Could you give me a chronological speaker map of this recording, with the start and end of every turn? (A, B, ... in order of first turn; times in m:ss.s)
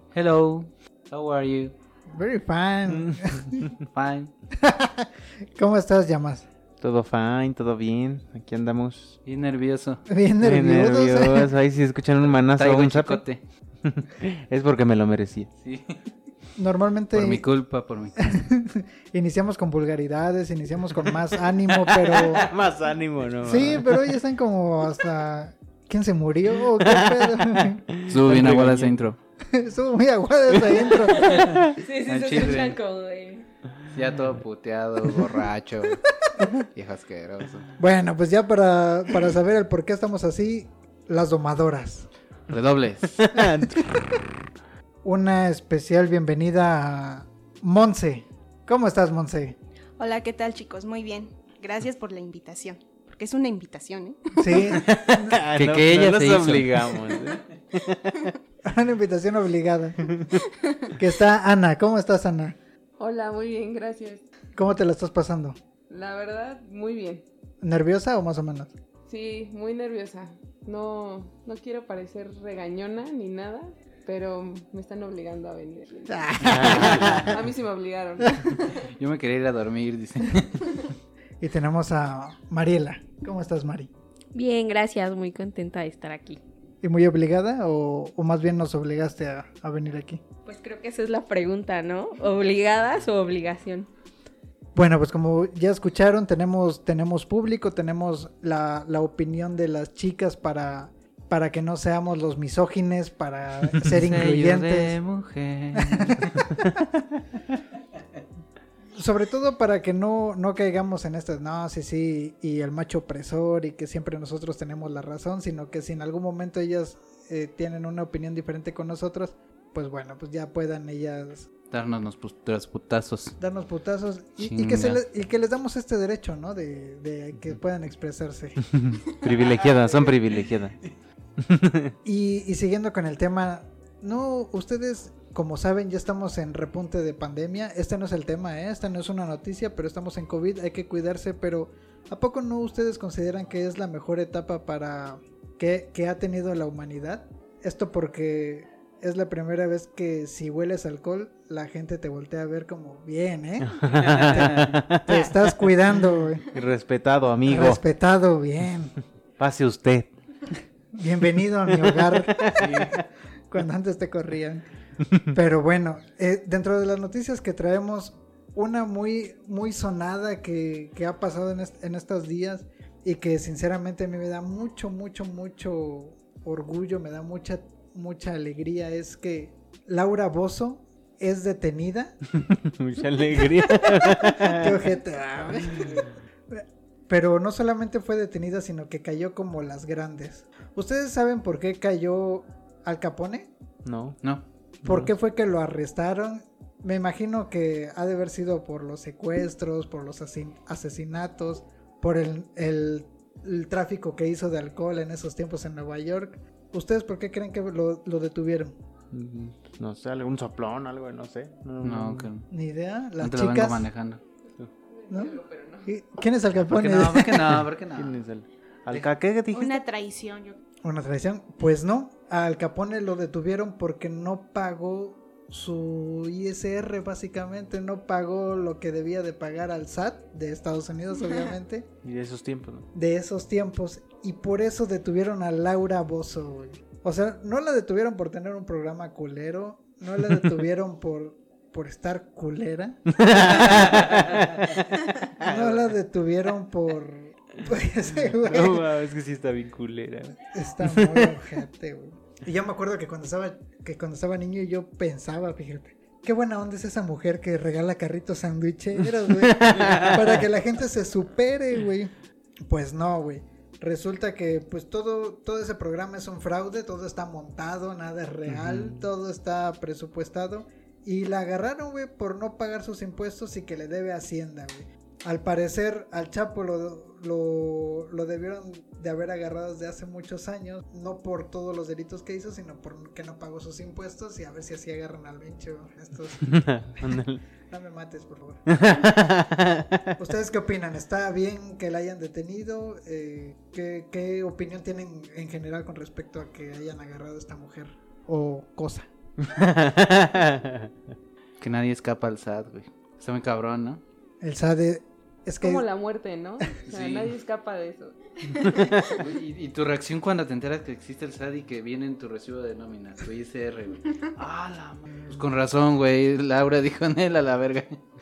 0:00.2-0:01.7 A
0:02.1-0:03.8 B
0:03.8-0:04.3 A
0:04.6-0:06.5 B
0:06.8-0:09.2 C
0:09.3-0:10.0 A
0:10.1-0:11.5 B
0:10.4-0:13.2 C
0:12.6-0:13.4 A
0:13.8-0:15.5 C
0:15.6-0:16.0 A
0:16.6-0:17.4 B
0:17.1-0:18.3 A
0:18.2-0:22.5 B
0:22.0-0:24.2 C
0:23.4-0:27.8 B
0:26.8-0:28.9 C
0:28.1-0:29.2 A
0:29.5-0:31.6 B
0:30.5-0:31.7 C
0:31.7-0:33.5 D
0:32.1-0:32.8 A
0:33.9-0:36.0 A
0:36.8-0:37.7 A
0:37.8-0:42.1 B
0:42.5-0:43.2 A
0:43.2-0:43.9 C
0:43.6-0:44.1 B
0:45.0-0:49.6 B
0:50.0-0:54.7 E
0:54.4-0:55.4 B
0:54.8-0:58.3 C
0:55.5-0:57.2 A
0:58.6-1:00.2 B
1:01.0-1:02.6 B
1:03.0-1:04.2 F
1:04.6-1:05.6 B
1:05.9-1:07.2 F
1:07.6-1:08.7 B
1:09.1-1:18.9 F
1:16.1-1:17.3 B
1:16.4-1:17.3 C
1:18.3-1:18.5 B
1:18.8-1:20.8 A
1:21.4-1:23.9 B
1:24.3-1:26.4 D
1:26.8-1:30.2 B
1:30.5-1:33.9 D
1:34.8-1:45.0 B
1:43.8-1:46.4 A
1:45.8-1:46.7 B
1:49.0-2:01.5 B
2:01.7-2:03.4 A
2:03.4-2:09.0 B
2:04.4-2:05.0 A
2:09.1-2:10.8 C
2:09.6-2:10.1 B
2:11.4-2:12.0 C
2:12.0-2:33.9 B
2:33.6-2:35.6 C
2:33.9-2:34.8 A
2:35.0-2:36.5 B
2:36.5-2:37.8 C
2:37.5-2:39.0 B
2:39.4-2:40.1 C
2:41.0-2:44.6 B
2:41.7-2:43.0 C
2:45.3-3:02.2 B
3:02.4-3:04.9 C
3:03.3-3:13.5 B
3:05.7-3:06.0 C
3:13.8-3:14.2 C
3:14.8-3:15.1 C
3:14.8-3:28.8 B
3:29.1-3:32.3 C
3:31.8-3:32.5 A
3:32.5-3:33.9 B
3:33.2-3:34.2 A
3:35.1-3:35.9 F
3:35.1-3:37.6 B
3:36.6-3:38.2 A
3:37.9-3:39.8 C
3:39.5-3:40.6 E
3:40.8-3:51.9 B
3:52.0-3:52.9 C
3:52.9-4:04.0 B
4:03.2-4:05.9 C
4:05.4-4:08.8 B
4:08.2-4:11.5 C
4:10.5-4:22.1 B
4:19.2-4:20.4 C
4:22.7-4:48.8 B
4:28.5-4:29.1 C
4:46.6-4:47.4 C
4:48.7-4:50.2 C
4:50.2-4:59.1 B
4:59.4-5:00.9 C
5:01.6-5:04.0 A
5:04.4-5:05.8 B
5:05.6-5:09.1 F
5:06.9-5:07.3 A
5:09.0-5:18.0 A